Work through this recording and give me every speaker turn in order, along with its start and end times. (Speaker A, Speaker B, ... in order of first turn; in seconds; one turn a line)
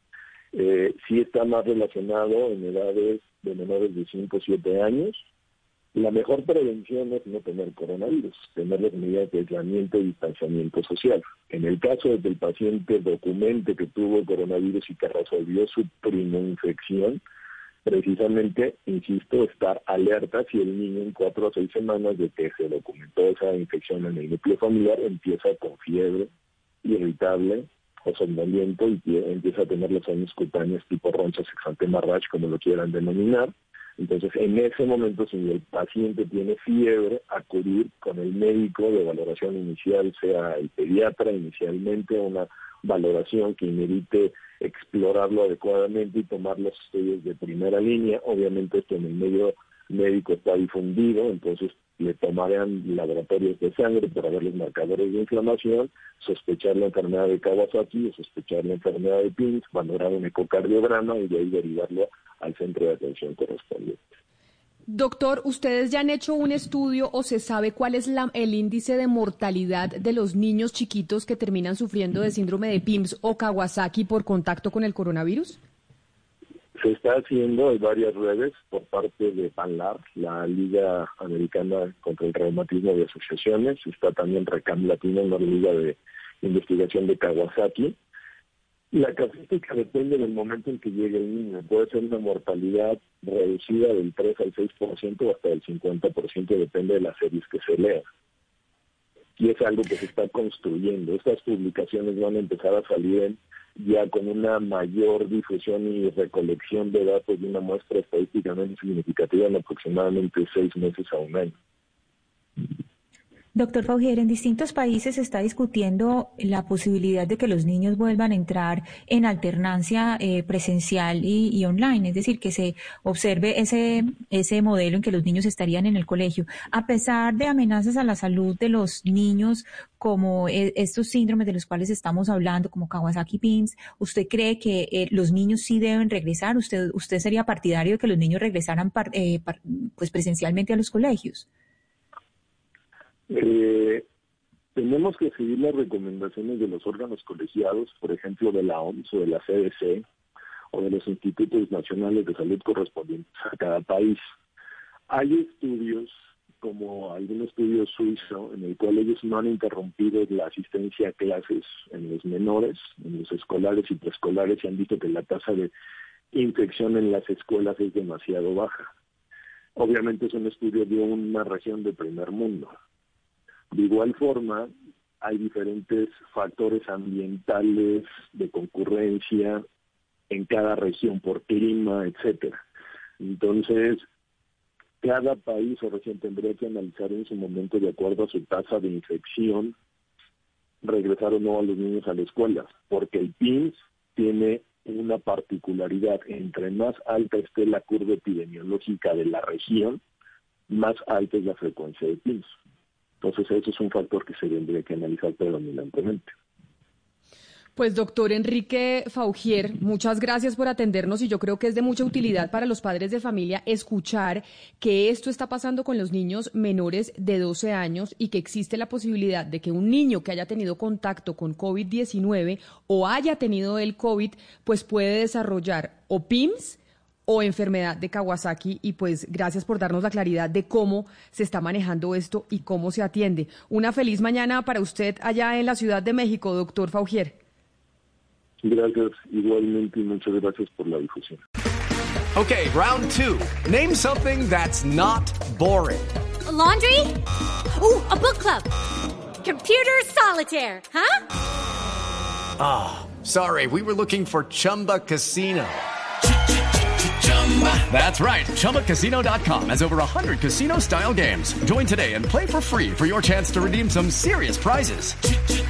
Speaker A: 0.5-5.2
Speaker A: 5.9-17.2
Speaker A: 17.8-26.3
Speaker A: 26.8-64.0
Speaker B: 64.9-75.6
Speaker A: 76.8-87.9
Speaker A: 88.9-98.0
Speaker A: 99.4-111.5
Speaker C: 113.5-141.4
Speaker A: 143.3-144.0
Speaker A: 144.7-150.0
Speaker A: 150.7-154.2
Speaker A: 155.1-165.7
Speaker A: 166.3-168.9
Speaker A: 169.8-172.7
Speaker A: 173.7-174.7
Speaker A: 175.2-179.6
Speaker A: 180.3-182.6
Speaker A: 183.2-184.0
Speaker A: 185.0-189.7
Speaker A: 190.8-200.0
Speaker A: 200.7-202.5
Speaker A: 203.2-206.3
Speaker B: 207.8-237.3
Speaker A: 238.6-241.4
Speaker D: 242.3-246.1
Speaker E: 246.4-248.7
Speaker E: 249.4-251.2
Speaker D: 252.6-255.8
Speaker D: 257.2-265.2